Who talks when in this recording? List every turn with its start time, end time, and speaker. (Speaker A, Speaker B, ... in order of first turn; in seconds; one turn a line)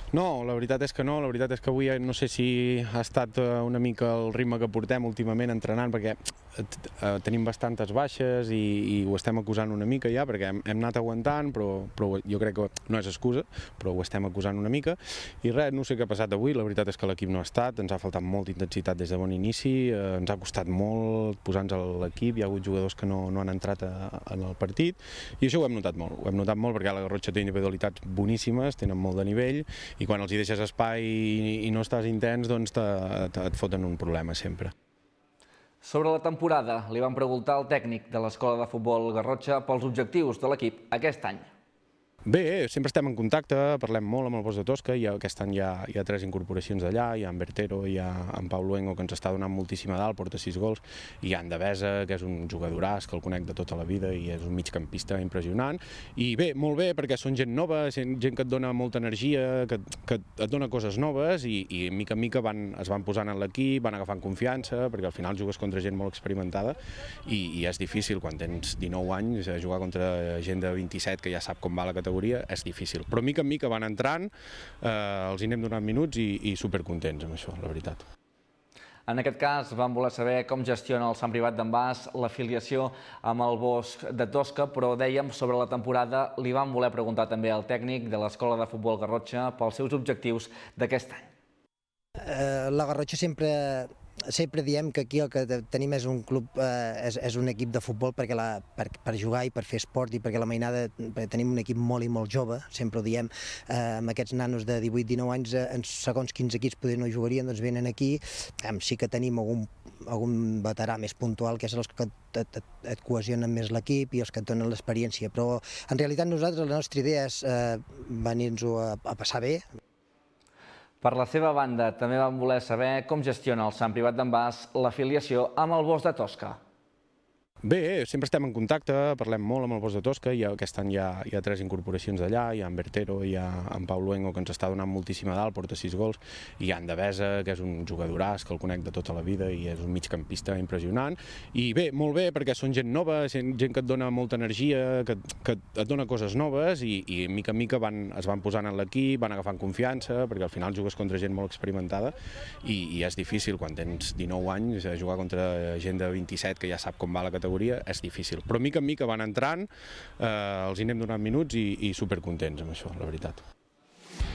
Speaker A: 0.1-34.7
Speaker B: 35.8-41.5
Speaker A: 42.2-74.3
Speaker A: 74.8-78.0
Speaker B: 79.1-91.3
Speaker C: 92.2-119.7
Speaker B: 121.0-126.6
Speaker A: 127.6-163.4